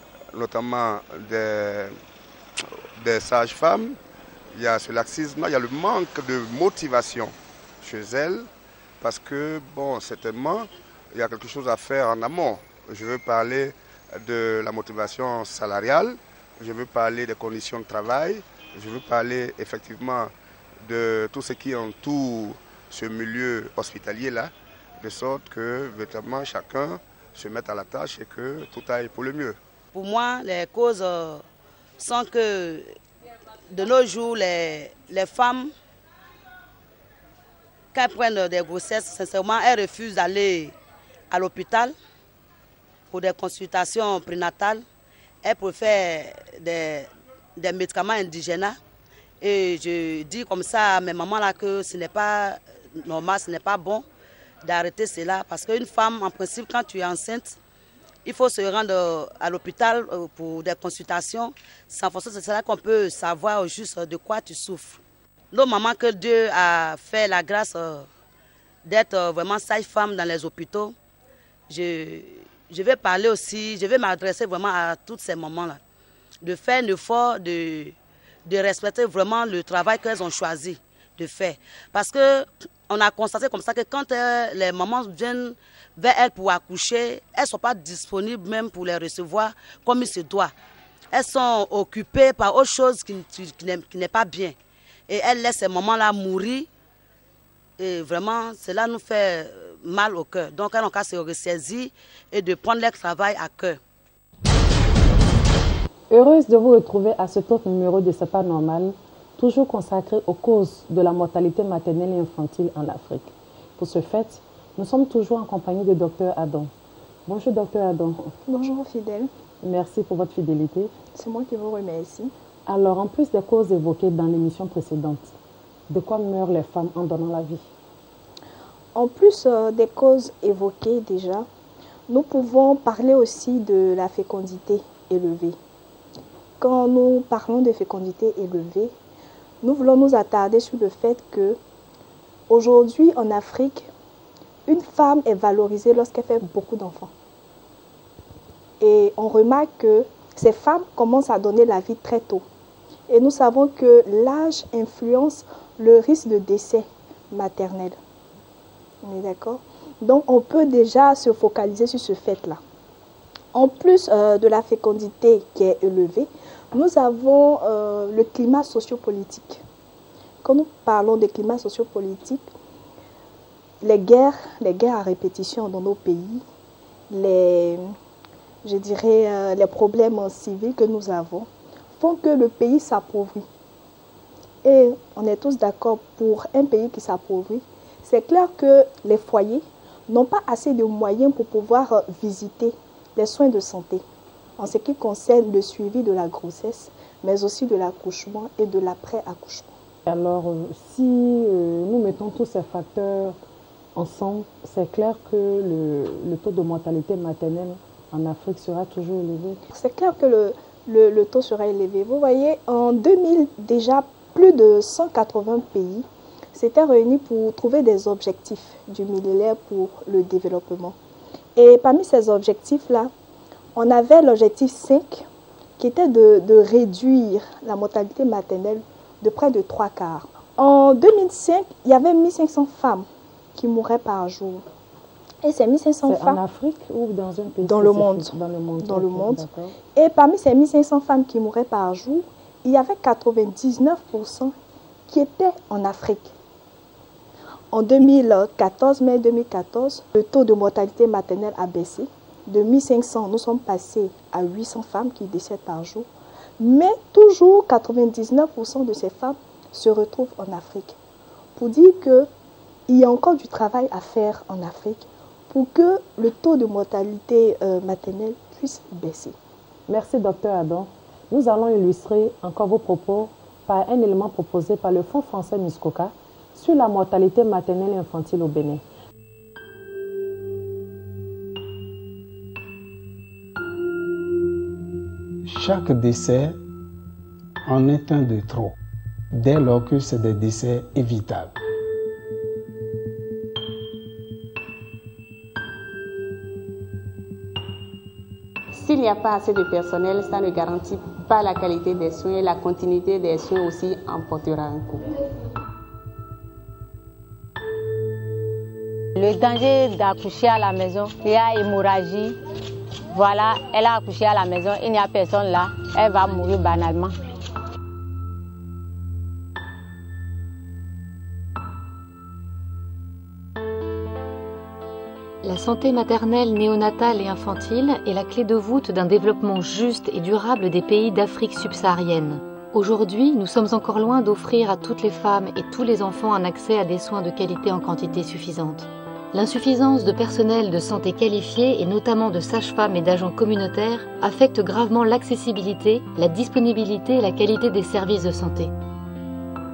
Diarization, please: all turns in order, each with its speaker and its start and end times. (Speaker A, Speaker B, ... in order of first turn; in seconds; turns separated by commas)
Speaker A: 0.3-1.9, Speaker A: 3.0-4.0, Speaker A: 4.5-8.5, Speaker A: 9.0-20.3, Speaker A: 20.9-29.6, Speaker B: 29.9-31.4, Speaker B: 32.0-32.9, Speaker B: 33.7-35.7, Speaker B: 37.9-40.8, Speaker B: 41.3-41.9, Speaker B: 43.1-44.8, Speaker B: 45.4-48.8, Speaker B: 49.4-54.0, Speaker B: 54.6-57.5, Speaker B: 58.2-65.0, Speaker B: 65.5-68.1, Speaker B: 68.9-70.9, Speaker B: 71.7-75.8, Speaker B: 76.4-77.9, Speaker B: 78.5-90.5, Speaker B: 91.1-94.5, Speaker B: 95.1-96.7, Speaker B: 97.8-103.8, Speaker C: 106.1-116.7, Speaker C: 117.2-118.3, Speaker D: 118.5-119.3, Speaker C: 119.6-120.9, Speaker D: 121.1-122.3, Speaker C: 122.7-125.3, Speaker C: 125.9-127.6, Speaker D: 128.9-131.5, Speaker D: 132.1-135.6, Speaker D: 136.6-138.9, Speaker D: 139.6-141.6, Speaker D: 142.5-143.9, Speaker D: 144.7-147.1, Speaker D: 148.8-152.4, Speaker D: 153.1-158.0, Speaker D: 159.0-162.6, Speaker D: 163.5-169.6, Speaker D: 170.4-172.4, Speaker D: 173.8-176.4, Speaker D: 177.1-177.9, Speaker D: 178.6-181.5, Speaker D: 182.0-183.4, Speaker D: 184.6-194.0, Speaker D: 194.6-199.7, Speaker C: 200.1-203.4, Speaker C: 203.9-209.6, Speaker D: 209.7-220.9, Speaker D: 221.6-223.1, Speaker D: 223.8-225.2, Speaker D: 225.8-234.6, Speaker D: 235.4-236.4, Speaker C: 236.0-239.8, Speaker D: 237.6-244.5, Speaker D: 245.1-246.3, Speaker D: 247.7-256.1, Speaker D: 256.6-260.9, Speaker D: 261.6-262.3, Speaker D: 262.9-269.4, Speaker C: 269.9-278.8, Speaker E: 285.4-286.6, Speaker E: 287.6-288.8, Speaker E: 289.3-291.5, Speaker F: 298.7-305.0, Speaker G: 309.1-312.4, Speaker G: 313.1-317.2, Speaker H: 325.4-348.7